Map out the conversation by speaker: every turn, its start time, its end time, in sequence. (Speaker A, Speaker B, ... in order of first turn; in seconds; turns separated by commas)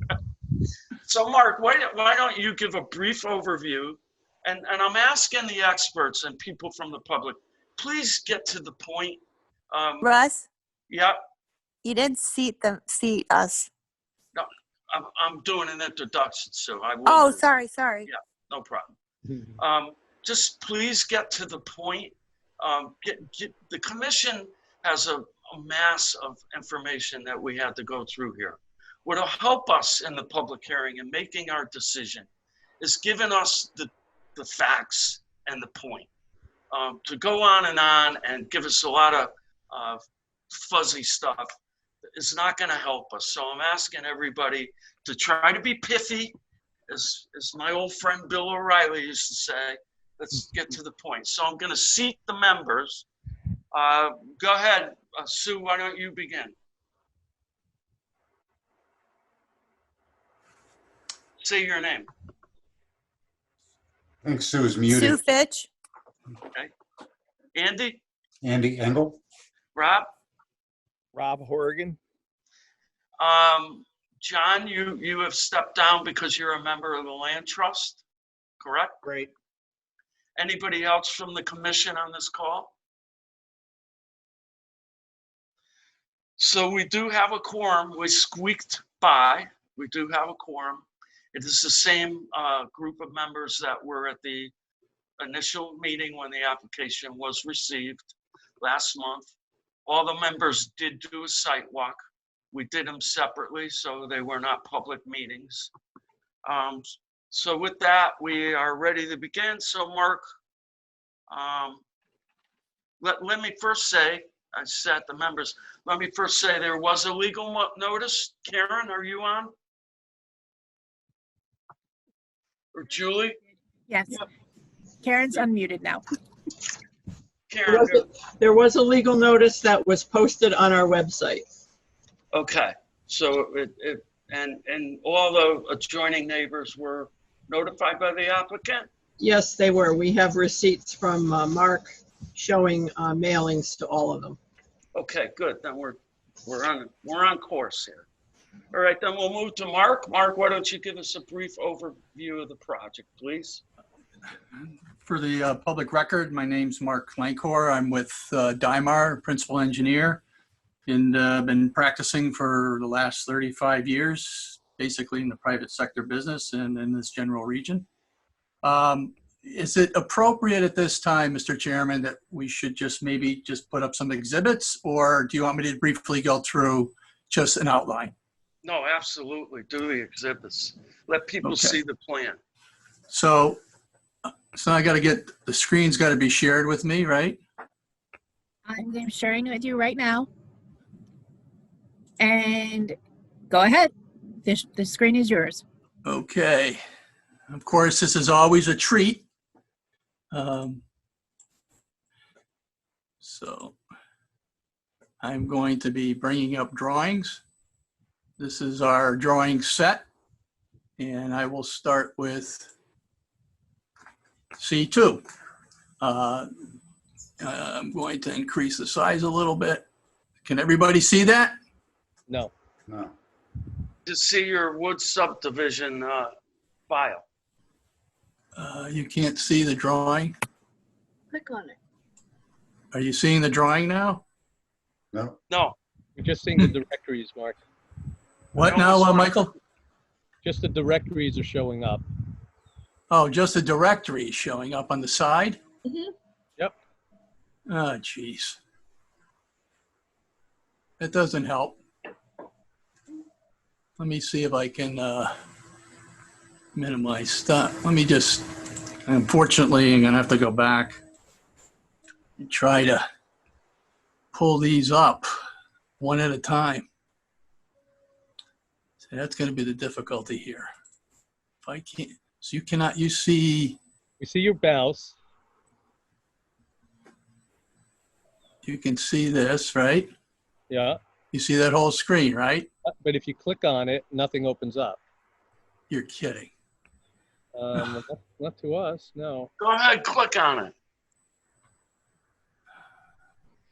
Speaker A: 1.0-9.2, Speaker A: 9.7-10.2, Speaker B: 10.0-10.4, Speaker A: 10.9-11.2, Speaker B: 11.8-13.7, Speaker A: 14.3-17.5, Speaker B: 17.1-18.1, Speaker A: 18.1-18.9, Speaker A: 19.6-32.3, Speaker A: 32.8-36.1, Speaker A: 36.7-41.5, Speaker A: 42.1-46.4, Speaker A: 46.9-53.1, Speaker A: 53.7-56.5, Speaker A: 61.4-62.1, Speaker C: 64.2-65.2, Speaker B: 64.9-65.7, Speaker A: 67.5-68.0, Speaker C: 68.4-69.2, Speaker A: 69.8-70.1, Speaker A: 73.2-78.0, Speaker A: 78.6-79.0, Speaker A: 80.4-82.7, Speaker A: 86.4-94.5, Speaker A: 95.2-99.3, Speaker A: 99.9-102.0, Speaker A: 102.5-105.7, Speaker A: 106.5-110.2, Speaker A: 111.3-111.8, Speaker A: 113.0-119.5, Speaker A: 122.7-123.4, Speaker D: 123.9-124.2, Speaker D: 125.0-126.0, Speaker A: 127.5-128.1, Speaker E: 127.7-131.4, Speaker A: 132.3-138.9, Speaker E: 139.2-144.4, Speaker A: 144.9-148.1, Speaker A: 148.7-153.6, Speaker F: 155.0-160.2, Speaker F: 160.9-167.9, Speaker F: 168.6-178.1, Speaker A: 178.6-182.4, Speaker F: 181.4-181.8, Speaker F: 183.1-183.6, Speaker F: 184.5-187.4, Speaker D: 188.7-190.3, Speaker D: 192.2-193.0, Speaker D: 193.5-193.9, Speaker D: 194.4-195.6, Speaker F: 196.1-196.8, Speaker F: 197.5-199.3, Speaker F: 200.3-200.8, Speaker F: 203.2-203.8, Speaker F: 205.2-207.4, Speaker F: 208.4-210.1, Speaker F: 211.0-212.7, Speaker F: 214.6-215.2, Speaker F: 216.0-216.5, Speaker F: 217.4-219.8, Speaker F: 220.4-221.6, Speaker C: 222.9-223.2, Speaker A: 224.1-226.3, Speaker A: 226.9-227.2, Speaker F: 228.6-230.3, Speaker E: 231.3-231.7, Speaker F: 232.9-234.2, Speaker A: 235.5-235.8, Speaker G: 236.2-237.6, Speaker F: 238.5-239.5, Speaker A: 238.6-239.5, Speaker G: 240.4-242.0, Speaker F: 243.1-245.6, Speaker F: 247.7-248.6, Speaker F: 251.0-251.8, Speaker F: 254.0-255.3, Speaker F: 256.8-258.5, Speaker F: 259.1-261.0, Speaker F: 262.4-263.0, Speaker F: 264.3-265.3, Speaker F: 266.0-266.9, Speaker F: 269.0-270.7, Speaker F: 271.6-273.8, Speaker G: 274.2-275.2, Speaker F: 278.6-280.1, Speaker G: 280.7-281.0, Speaker F: 281.3-282.7, Speaker G: 282.9-285.0, Speaker F: 285.9-286.5, Speaker G: 287.6-289.5, Speaker A: 289.6-290.7